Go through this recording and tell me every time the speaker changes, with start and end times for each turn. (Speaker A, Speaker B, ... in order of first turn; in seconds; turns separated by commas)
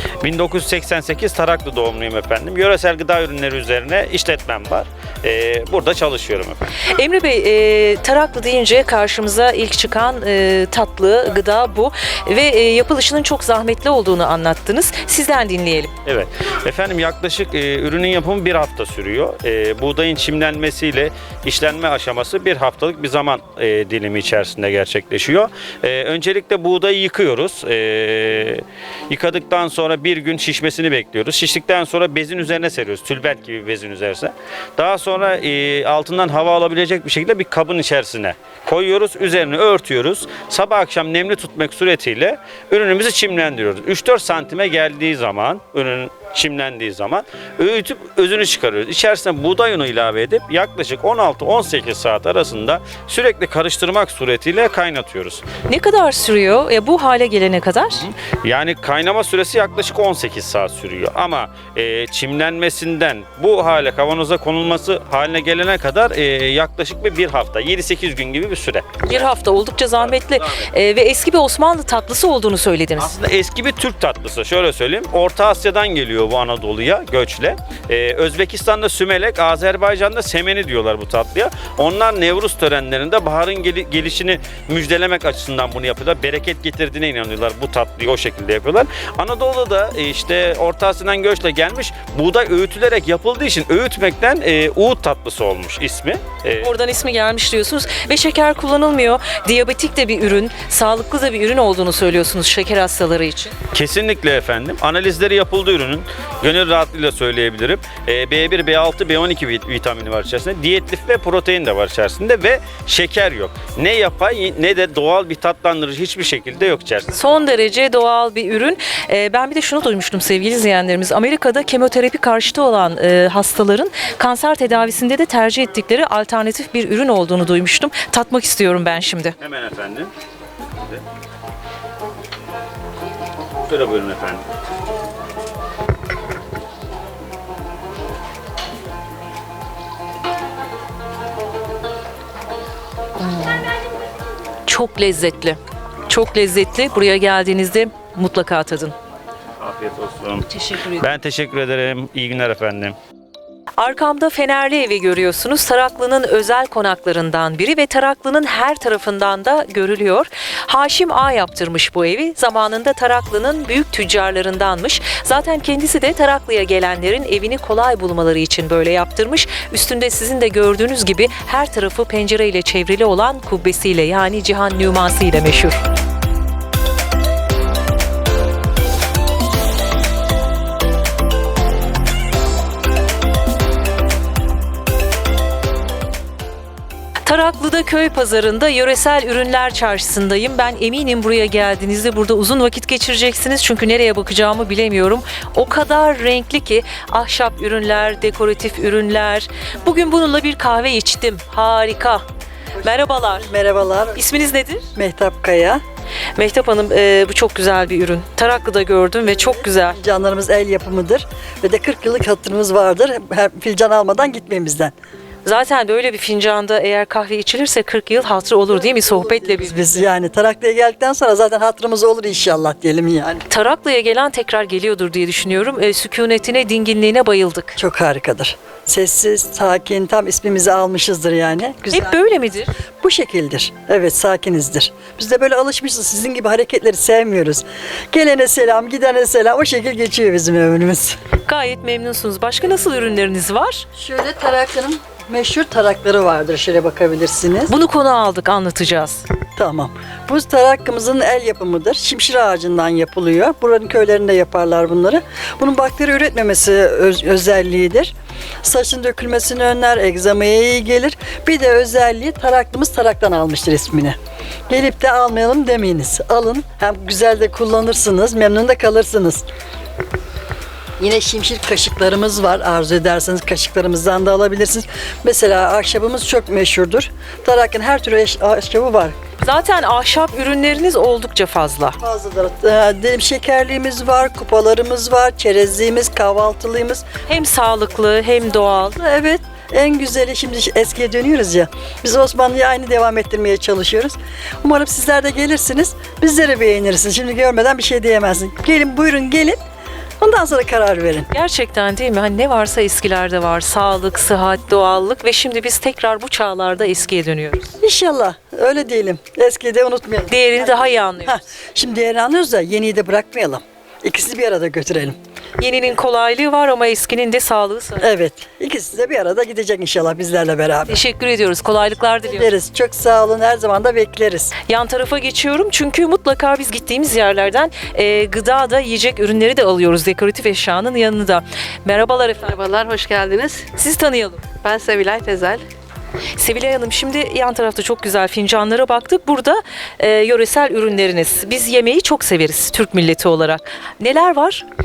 Speaker A: 0.2-6.6, Speaker B: 6.9-15.9, Speaker A: 16.1-55.5, Speaker B: 55.7-58.1, Speaker A: 58.0-69.3, Speaker B: 69.0-73.1, Speaker A: 70.0-70.7, Speaker A: 73.0-96.7, Speaker B: 96.6-103.6, Speaker A: 103.7-117.2, Speaker B: 117.1-129.4, Speaker A: 129.4-130.1, Speaker A: 133.6-134.4, Speaker B: 143.2-143.7, Speaker B: 144.7-148.9, Speaker A: 149.6-153.0, Speaker B: 150.5-151.1, Speaker B: 153.8-175.8, Speaker B: 187.3-202.2, Speaker C: 202.8-204.2, Speaker B: 202.8-203.5, Speaker B: 204.2-204.9, Speaker C: 205.0-205.8, Speaker B: 206.4-210.0, Speaker C: 209.2-214.9, Speaker B: 215.4-219.8, Speaker C: 219.2-223.4, Speaker B: 223.5-227.8, Speaker C: 227.8-232.2, Speaker B: 231.9-232.7, Speaker C: 233.0-241.2, Speaker B: 241.4-243.9, Speaker C: 243.9-247.7, Speaker B: 247.7-249.2, Speaker C: 249.6-264.2, Speaker C: 264.7-269.5, Speaker C: 271.0-279.2, Speaker B: 279.4-282.0, Speaker C: 282.0-287.1, Speaker B: 287.3-289.0, Speaker C: 288.9-299.6, Speaker C: 300.2-301.3, Speaker B: 301.3-307.7, Speaker C: 307.8-315.2, Speaker B: 310.3-311.4, Speaker B: 315.6-318.1, Speaker C: 318.0-321.0, Speaker B: 320.9-322.5, Speaker C: 322.3-324.5, Speaker B: 324.7-332.6, Speaker D: 332.4-333.7, Speaker B: 333.8-334.4, Speaker D: 334.6-335.6, Speaker B: 336.4-344.6